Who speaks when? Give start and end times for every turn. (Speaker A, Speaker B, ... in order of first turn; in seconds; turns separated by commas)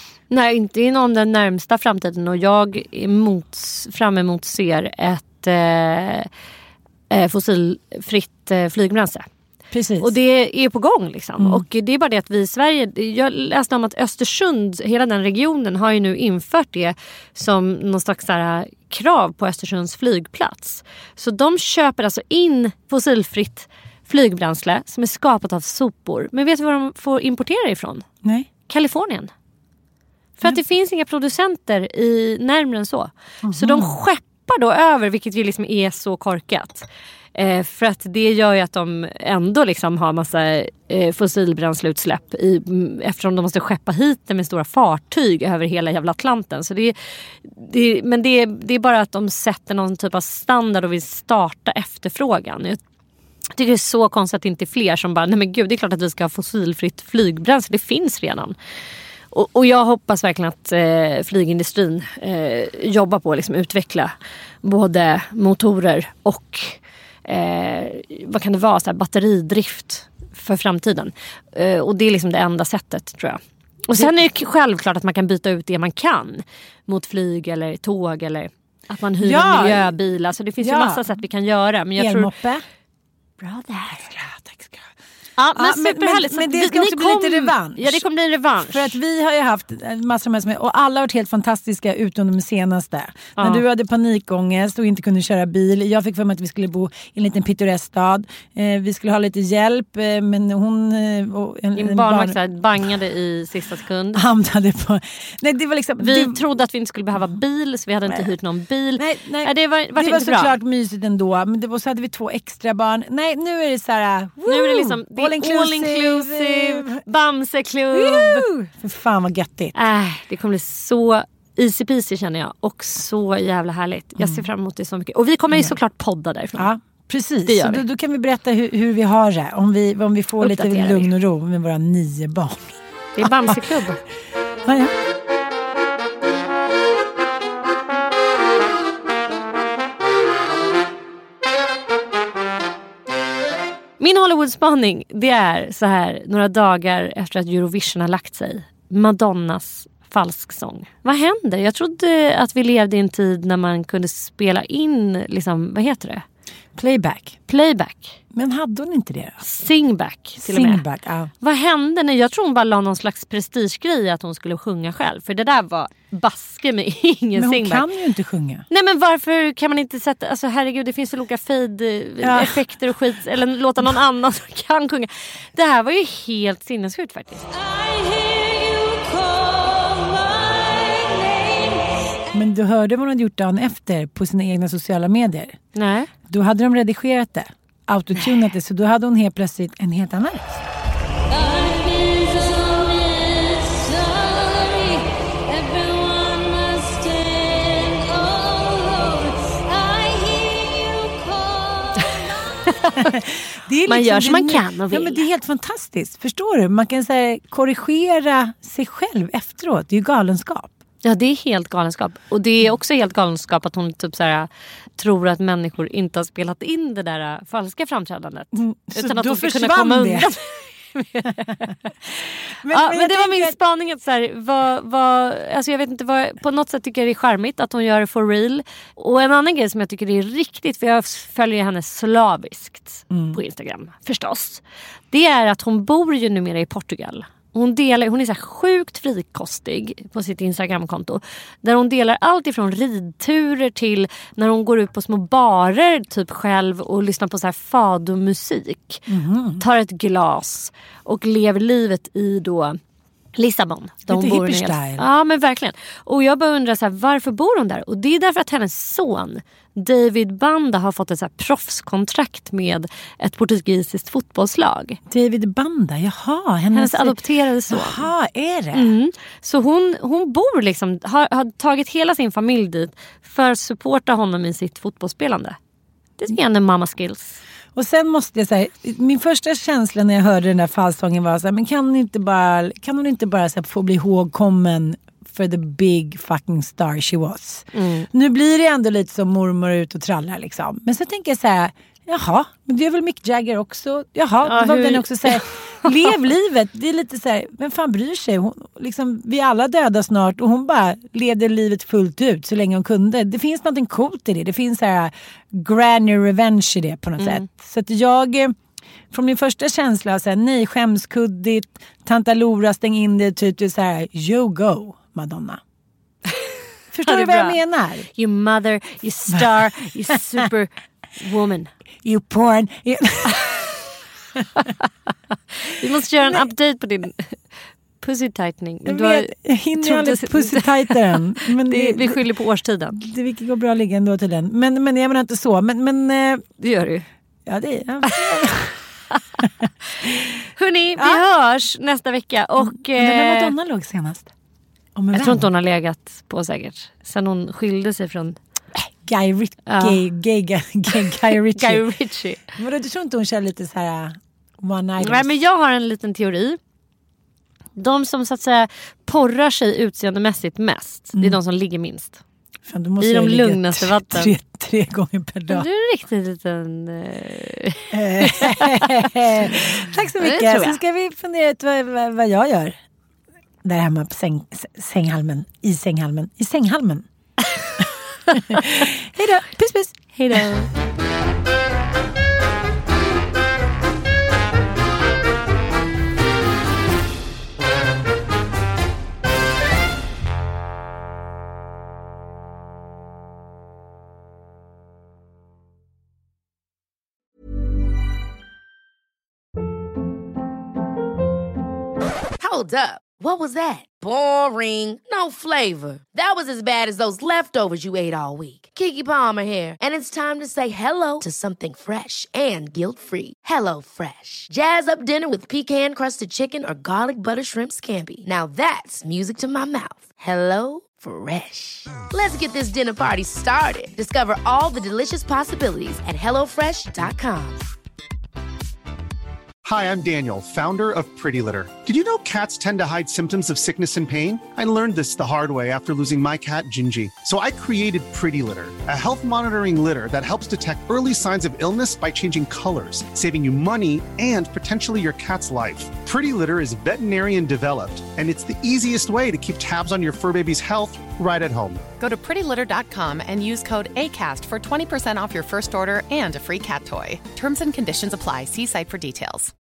Speaker A: 0.3-6.3, Speaker A: 7.1-9.2, Speaker B: 9.7-10.1, Speaker A: 10.0-28.1, Speaker B: 11.4-11.7, Speaker A: 28.7-29.3, Speaker A: 30.4-52.8, Speaker B: 33.4-34.0, Speaker A: 53.5-58.5, Speaker A: 59.3-64.1, Speaker A: 64.6-82.3, Speaker B: 79.2-80.0, Speaker B: 80.6-81.0, Speaker B: 82.0-82.6, Speaker A: 83.4-84.0, Speaker B: 83.9-84.8, Speaker A: 85.4-89.0, Speaker B: 85.5-88.0, Speaker B: 88.6-102.4, Speaker A: 93.4-93.6, Speaker A: 101.8-104.2, Speaker B: 104.1-106.4, Speaker A: 106.0-110.5, Speaker B: 109.0-117.0, Speaker A: 114.5-118.5, Speaker B: 117.9-119.7, Speaker A: 119.8-126.7, Speaker B: 124.2-124.5, Speaker B: 125.5-125.8, Speaker B: 126.6-133.6, Speaker A: 127.5-127.8, Speaker A: 130.4-131.1, Speaker A: 133.2-134.0, Speaker B: 134.7-134.9, Speaker A: 144.0-156.2, Speaker B: 156.8-157.4, Speaker A: 157.5-158.2, Speaker B: 158.3-159.4, Speaker A: 159.4-160.8, Speaker B: 160.4-161.3, Speaker A: 161.4-167.8, Speaker B: 167.4-168.7, Speaker A: 168.7-181.8, Speaker B: 172.2-172.6, Speaker B: 182.3-185.6, Speaker A: 185.8-186.1, Speaker B: 186.3-190.7, Speaker A: 191.3-203.2, Speaker B: 203.0-210.7, Speaker A: 203.9-205.2, Speaker A: 211.0-221.7, Speaker B: 218.5-220.3, Speaker B: 221.2-221.7, Speaker B: 222.6-223.6, Speaker A: 222.7-249.0, Speaker B: 233.1-233.4, Speaker B: 249.1-249.7, Speaker A: 249.6-252.8, Speaker A: 253.4-265.0, Speaker B: 254.1-255.1, Speaker B: 265.1-267.2, Speaker A: 266.7-268.0, Speaker B: 267.7-268.9, Speaker A: 268.7-275.6, Speaker A: 276.2-277.4, Speaker B: 277.8-308.6, Speaker A: 287.7-288.1, Speaker A: 294.4-295.9, Speaker B: 309.1-315.6, Speaker B: 316.9-318.1, Speaker A: 317.1-317.6, Speaker A: 318.1-321.7, Speaker B: 319.3-319.6, Speaker B: 322.0-324.7, Speaker A: 325.7-327.4, Speaker B: 326.2-326.5, Speaker A: 328.0-333.0, Speaker B: 328.9-332.2, Speaker B: 333.0-336.4, Speaker A: 336.6-337.1, Speaker B: 337.5-338.8, Speaker B: 339.4-340.3, Speaker A: 340.0-343.5, Speaker B: 341.0-341.2, Speaker B: 342.6-344.3, Speaker B: 344.9-345.5, Speaker A: 345.1-348.4, Speaker B: 348.8-351.9, Speaker A: 349.7-350.0, Speaker A: 350.9-352.5, Speaker B: 352.6-355.3, Speaker A: 355.0-356.6, Speaker A: 357.8-362.2, Speaker B: 362.7-365.7, Speaker A: 363.0-364.3, Speaker A: 365.5-370.8, Speaker B: 367.9-372.8, Speaker B: 373.6-377.1, Speaker B: 378.3-380.5, Speaker A: 380.1-380.7, Speaker C: 402.4-427.7, Speaker D: 429.6-451.9, Speaker E: 452.0-459.5